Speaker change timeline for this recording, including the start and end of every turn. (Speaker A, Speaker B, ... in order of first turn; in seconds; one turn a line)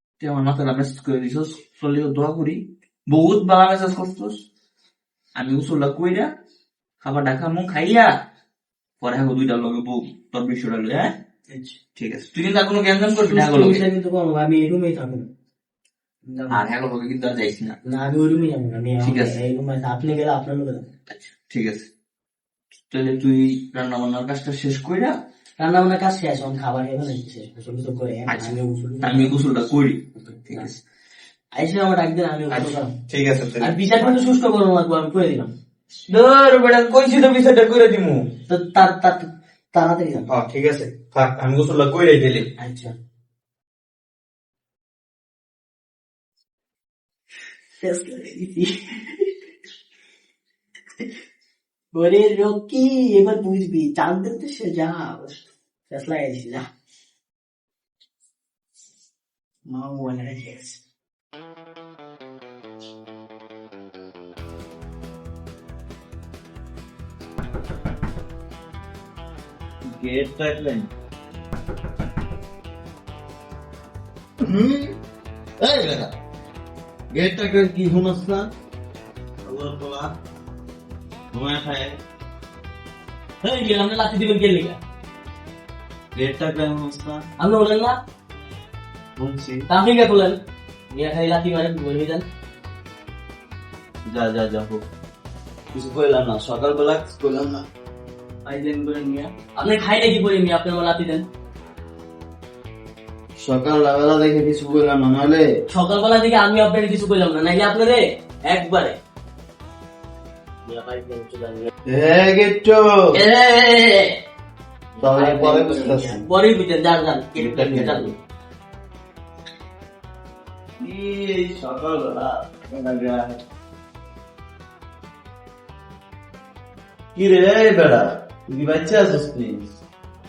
Speaker A: 0.2-4.4
Speaker A: 5.4-6.3
Speaker A: 7.0-8.1
Speaker A: 9.0-11.1
Speaker B: 11.5-11.8
Speaker A: 12.0-13.8
Speaker B: 13.1-15.3
Speaker B: 16.3-16.6
Speaker A: 16.5-17.8
Speaker B: 17.9-20.9
Speaker A: 19.0-19.4
Speaker A: 21.3-21.9
Speaker A: 22.9-25.2
Speaker B: 25.6-29.3
Speaker A: 28.3-30.7
Speaker B: 30.1-30.8
Speaker B: 31.6-32.9
Speaker A: 32.5-34.1
Speaker B: 33.6-35.5
Speaker A: 36.1-38.3
Speaker B: 38.5-40.3
Speaker A: 40.3-42.5
Speaker B: 42.6-42.9
Speaker B: 47.8-49.3
Speaker B: 51.9-56.7
Speaker B: 59.7-60.8
Speaker C: 69.9-70.9
Speaker C: 74.4-74.9
Speaker C: 75.6-76.1
Speaker C: 77.1-78.5
Speaker C: 79.5-80.2
Speaker C: 81.3-82.0
Speaker B: 83.4-84.8
Speaker C: 86.2-87.3
Speaker B: 87.4-88.0
Speaker C: 89.2-89.7
Speaker B: 89.7-90.4
Speaker B: 90.9-92.2
Speaker C: 94.1-94.8
Speaker C: 95.7-97.7
Speaker B: 98.5-101.3
Speaker C: 103.4-105.5
Speaker B: 105.7-109.0
Speaker B: 110.7-111.7
Speaker C: 111.9-112.9
Speaker B: 113.1-114.2
Speaker B: 115.0-118.1
Speaker C: 115.0-116.2
Speaker C: 117.4-118.2
Speaker C: 120.8-123.4
Speaker C: 127.2-129.7